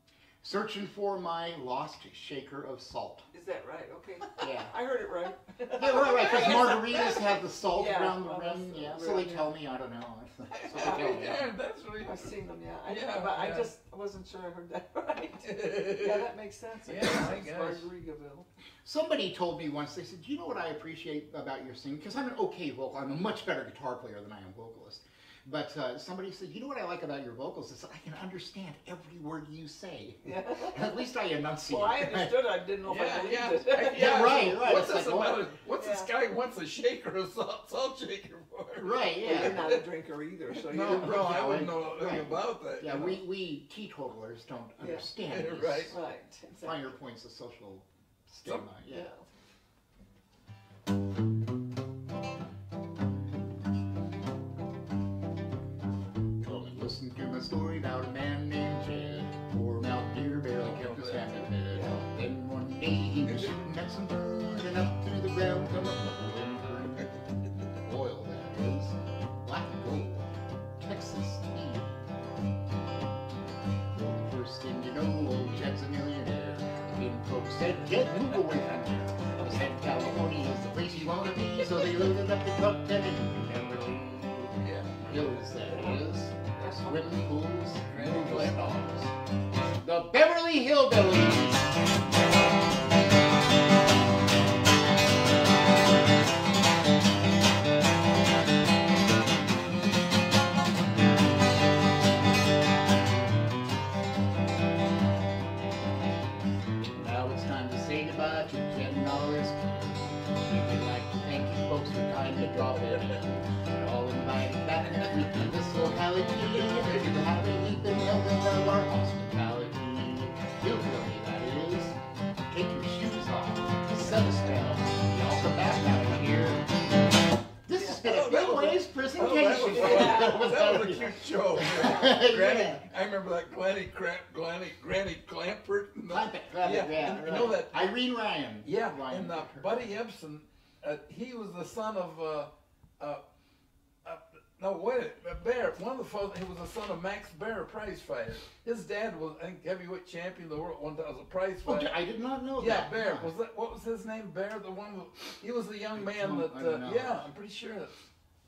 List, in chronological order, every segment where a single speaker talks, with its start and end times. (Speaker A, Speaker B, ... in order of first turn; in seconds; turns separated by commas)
Speaker A: 0.4-3.3, Speaker B: 3.3-9.5, Speaker A: 4.4-4.7, Speaker A: 5.7-11.5, Speaker C: 10.5-12.3, Speaker B: 10.8-11.3, Speaker B: 12.0-18.5, Speaker C: 12.9-13.7, Speaker C: 15.4-16.3, Speaker C: 16.9-17.9, Speaker A: 18.8-32.3, Speaker B: 30.2-31.0, Speaker B: 31.7-34.4, Speaker C: 32.8-39.8, Speaker A: 33.9-35.4, Speaker B: 35.7-36.1, Speaker A: 38.8-39.6, Speaker B: 39.2-41.2, Speaker C: 40.5-43.2, Speaker A: 40.8-46.0, Speaker B: 44.8-45.1, Speaker C: 45.3-45.9, Speaker B: 45.9-47.0, Speaker A: 46.6-49.1, Speaker B: 48.9-49.2, Speaker A: 56.4-67.2, Speaker C: 60.6-61.5, Speaker B: 61.7-62.0, Speaker A: 67.8-71.9, Speaker A: 73.9-89.1, Speaker C: 84.6-85.3, Speaker B: 85.6-86.0, Speaker B: 86.5-87.0, Speaker C: 87.9-88.7, Speaker A: 89.8-91.7, Speaker A: 107.0-122.0, Speaker C: 112.6-113.2, Speaker C: 116.6-117.1, Speaker A: 122.5-126.6, Speaker A: 127.7-132.8, Speaker C: 128.0-137.9, Speaker B: 129.5-130.5, Speaker B: 131.8-132.0, Speaker A: 136.1-139.8, Speaker C: 138.6-143.2, Speaker C: 144.0-152.0, Speaker A: 151.6-153.3, Speaker C: 152.6-158.0, Speaker A: 155.9-157.3